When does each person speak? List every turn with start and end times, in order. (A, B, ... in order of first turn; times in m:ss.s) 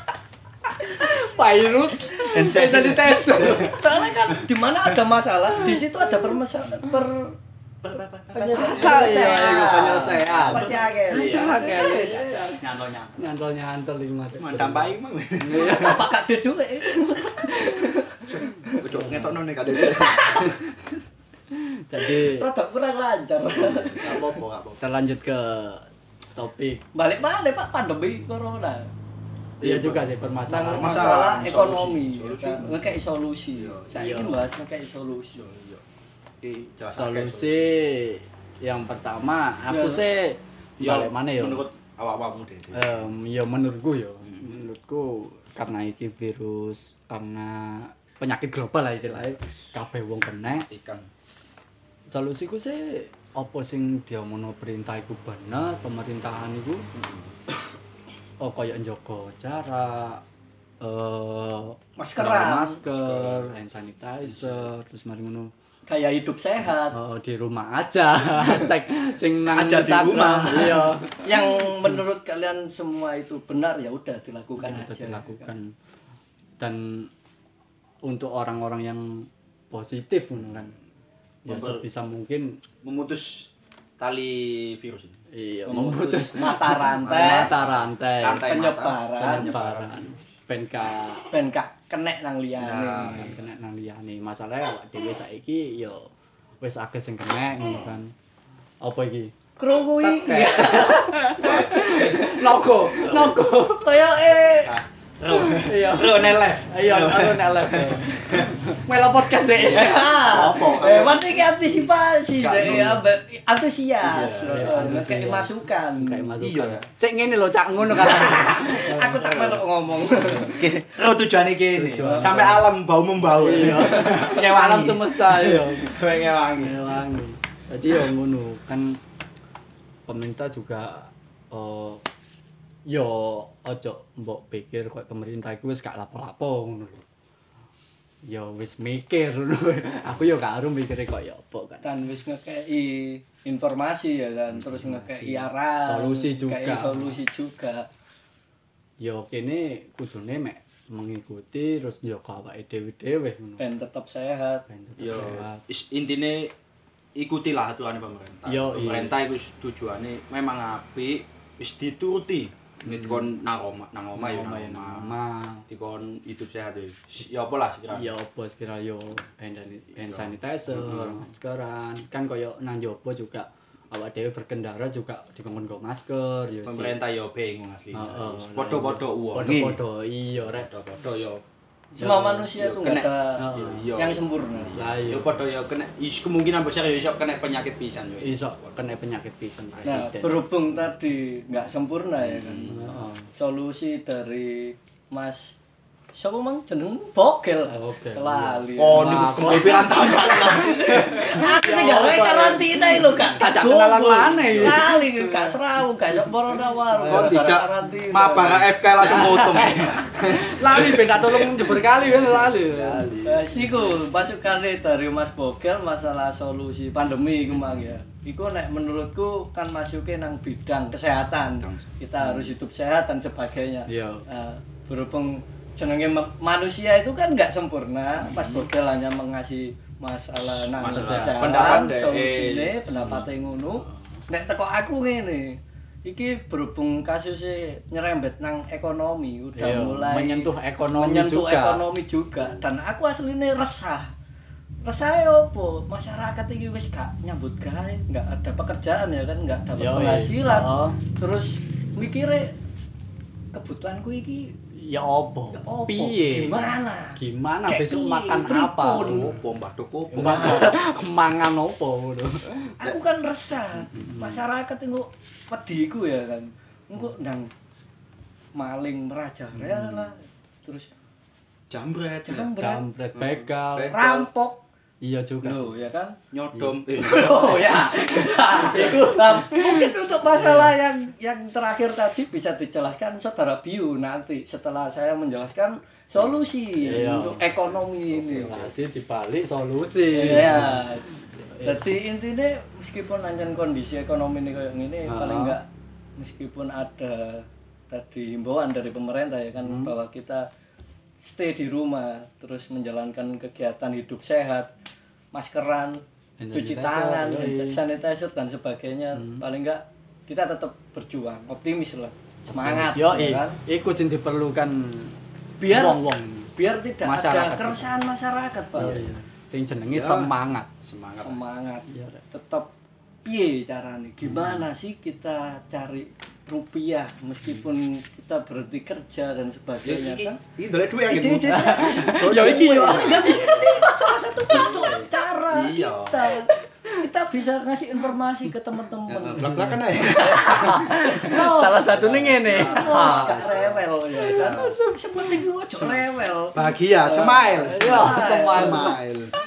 0:00.7-0:03.8 A
0:02.2-0:04.9 B
0:03.5-0:07.4 C
0:07.8-0:13.2 B
0:08.3-0:12.6 C
0:08.5-0:12.5 A
0:13.2-0:16.1 A
0:14.4-0:16.0 B
0:15.6-0:18.8 C
0:17.5-0:17.9 A
0:18.5-0:19.4 A
0:18.8-0:21.0 B
0:19.8-0:20.5 C
0:21.5-0:22.5 A
0:22.1-0:24.4 C
0:23.6-0:24.8 B
0:24.8-0:26.8 A
0:27.0-0:28.9 C
0:29.6-0:31.1 A
0:29.6-0:33.0 B
0:30.6-0:35.4 C
0:33.6-0:34.0 B
0:34.0-0:34.4 A
0:35.4-0:35.8 B
0:36.4-0:37.7 B
0:36.9-0:41.7 A
0:39.7-0:40.0 C
0:40.8-0:43.0 B
0:42.7-0:50.7 A
0:44.3-0:44.6 B
0:50.5-0:51.1 B
0:52.1-0:56.9 A
0:56.9-0:57.4 B
0:58.4-1:00.2 A
1:00.8-1:05.5 A
1:02.0-1:02.8 C
1:02.8-1:03.6 B
1:04.2-1:04.7 B
1:05.9-1:07.0 C
1:06.9-1:11.3 A
1:09.5-1:11.0 B
1:11.2-1:15.5 C
1:14.6-1:15.7 A
1:16.6-1:17.1 A
1:18.0-1:20.7 A
1:21.4-1:22.6 A
1:21.5-1:21.8 B
1:22.8-1:25.2 B
1:25.3-1:28.5 A
1:25.7-1:27.5 C
1:26.9-1:30.2 B
1:28.5-1:29.5 C
1:29.2-1:31.3 A
1:31.3-1:33.2 C
1:32.6-1:33.4 B
1:33.0-1:36.1 A
1:36.6-1:38.1 A
1:38.8-1:39.3 A
1:39.6-1:42.5 C
1:39.9-1:44.0 A
1:41.4-1:42.3 B
1:42.8-1:43.3 B
1:43.8-1:44.8 C
1:44.6-1:48.6 B
1:45.4-1:50.6 A
1:49.6-1:56.3 C
1:50.2-1:51.5 B
1:52.4-1:53.0 B
1:54.0-1:55.0 B
1:54.5-2:00.6 A
1:56.4-1:56.9 B
1:57.8-2:00.6 C
2:00.6-2:06.9 B
2:01.8-2:02.7 A
2:03.4-2:05.9 A
2:03.6-2:04.2 C
2:06.6-2:09.0 A
2:10.1-2:12.0 A
2:12.9-2:17.0 A
2:18.3-2:21.9 A
2:21.8-2:27.9 C
2:24.5-2:27.2 A
2:29.0-2:33.6 A
2:33.6-2:34.6 C
2:34.7-2:35.6 A
2:35.0-2:36.5 B
2:37.2-2:45.2 B
2:38.5-2:39.2 A
2:42.8-2:43.3 A
2:44.2-2:45.6 A
2:45.7-2:48.1 B
2:47.9-2:57.0 A
2:50.0-2:51.2 B
2:56.7-2:59.8 B
2:57.9-3:00.7 A
3:00.5-3:01.4 B
3:02.0-3:04.8 C
3:02.0-3:08.4 B
3:03.4-3:03.9 A
3:04.7-3:05.4 A
3:08.2-3:10.5 A
3:09.8-3:15.6 C
3:12.2-3:12.9 B
3:12.6-3:13.3 A
3:16.1-3:28.7 C
3:17.7-3:19.9 A
3:18.8-3:21.5 B
3:21.3-3:25.5 A
3:23.0-3:23.4 B
3:24.5-3:24.8 B
3:27.0-3:27.4 A
3:27.1-3:33.5 B
3:29.0-3:33.1 A
3:33.2-4:04.1 C
3:41.6-3:42.5 B
3:43.9-3:44.2 A
3:48.2-3:48.7 B
3:50.4-3:52.8 B
3:50.9-3:51.8 A
3:53.0-3:53.2 A
3:53.8-3:54.2 A
3:59.6-4:01.8 A
4:04.8-4:12.6 C
4:09.8-4:11.0 A
4:13.5-4:14.5 C
4:14.8-4:19.4 A
4:15.5-4:19.4 C
4:19.0-4:20.8 B
4:20.1-4:22.7 A
4:20.2-4:20.8 C
4:22.8-4:27.5 C
4:23.8-4:24.4 A
4:28.6-4:30.9 C
4:29.6-4:30.1 A
4:31.7-4:32.5 B
4:32.3-4:32.8 C
4:32.6-4:34.0 A
4:33.2-4:34.3 B
4:33.9-4:34.6 C
4:35.0-4:35.8 A
4:35.4-4:36.2 C
4:36.3-4:37.6 B
4:36.5-4:40.7 A
4:37.0-4:48.6 C
4:46.8-4:47.4 A
4:48.1-4:48.7 B
4:48.3-4:52.0 A
4:50.2-4:51.1 C
4:51.6-4:55.6 C
4:55.1-4:55.6 A
4:56.2-5:00.4 C
4:59.6-4:59.9 A
5:01.2-5:04.7 C
5:05.3-5:06.0 C
5:06.4-5:07.8 A
5:06.5-5:13.6 C
5:09.2-5:09.4 A
5:12.5-5:15.2 A
5:15.6-5:16.0 C
5:15.7-5:16.5 A
5:16.6-5:19.1 C
5:17.0-5:17.9 A
5:18.8-5:20.7 A
5:19.9-5:21.4 B
5:21.2-5:22.7 C
5:21.9-5:22.2 A
5:23.2-5:30.4 C
5:24.2-5:24.7 A
5:29.8-5:33.7 B
5:31.1-5:49.0 C
5:31.2-5:35.0 A
5:34.5-5:36.4 B
5:39.1-5:41.2 B
5:39.4-5:43.5 A
5:41.8-5:44.8 B
5:44.3-5:44.6 A
5:45.7-5:49.3 B
5:47.8-5:49.0 A